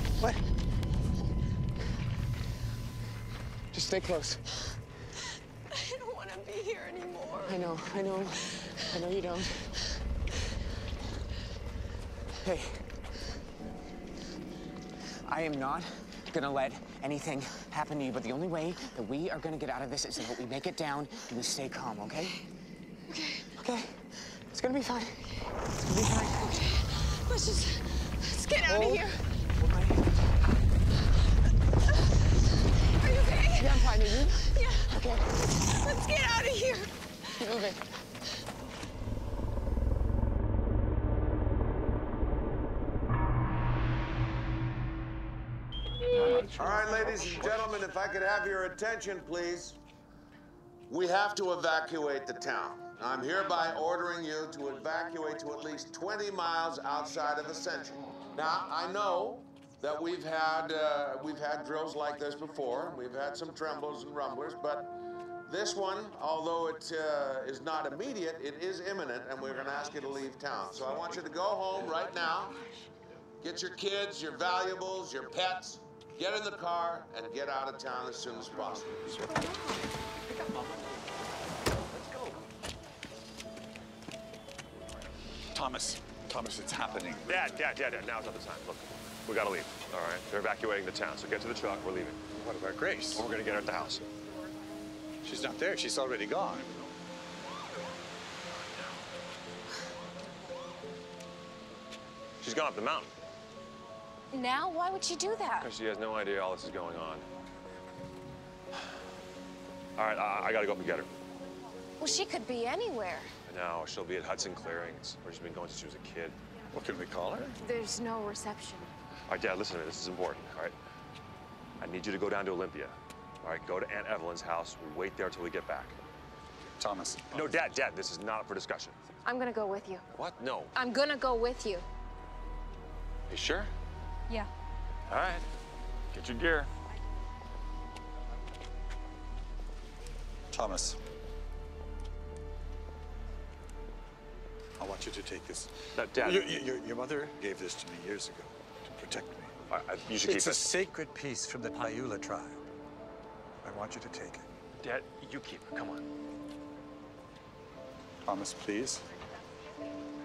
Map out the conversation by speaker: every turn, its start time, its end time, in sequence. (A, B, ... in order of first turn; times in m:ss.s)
0:03.7-0:04.8 A
0:05.7-0:08.8 B
0:07.4-0:09.8 A
0:12.4-0:12.8 A
0:15.2-0:22.4 A
0:23.1-0:23.4 C
0:23.6-0:26.4 A
0:26.2-0:26.8 C
0:26.8-0:29.2 B
0:28.7-0:29.0 A
0:29.6-0:30.1 A
0:33.0-0:37.6 B
0:33.5-0:35.4 A
0:37.4-0:37.8 A
0:46.5-0:49.8 D
0:47.1-0:47.4 A
0:50.9-1:04.9 D
1:05.5-1:12.6 D
1:13.4-1:19.1 D
1:20.3-1:21.0 E
1:21.9-1:22.4 E
1:25.5-1:27.4 E
1:27.2-1:32.2 F
1:32.3-1:33.2 E
1:33.1-1:34.0 F
1:35.2-1:37.0 E
1:42.4-1:43.1 F
1:44.3-1:45.7 C
1:45.6-1:47.3 F
1:50.0-1:51.1 F
1:52.0-1:53.3 C
1:53.4-1:56.4 F
1:56.7-1:57.6 E
1:57.6-1:58.9 C
1:59.3-2:00.8 F
2:01.8-2:06.0 F
2:06.8-2:07.5 E
2:07.3-2:09.0 F
2:09.2-2:10.0 C
2:10.1-2:10.7 F
2:10.7-2:11.8 C
2:13.3-2:13.7 F
2:15.1-2:15.4 F
2:16.1-2:16.7 F
2:20.5-2:21.0 E
2:24.8-2:29.5 E
2:25.9-2:26.6 F
2:29.7-2:30.7 F
2:30.2-2:32.6 E
2:33.6-2:34.5 E
2:34.8-2:36.0 F
2:38.2-2:39.0 E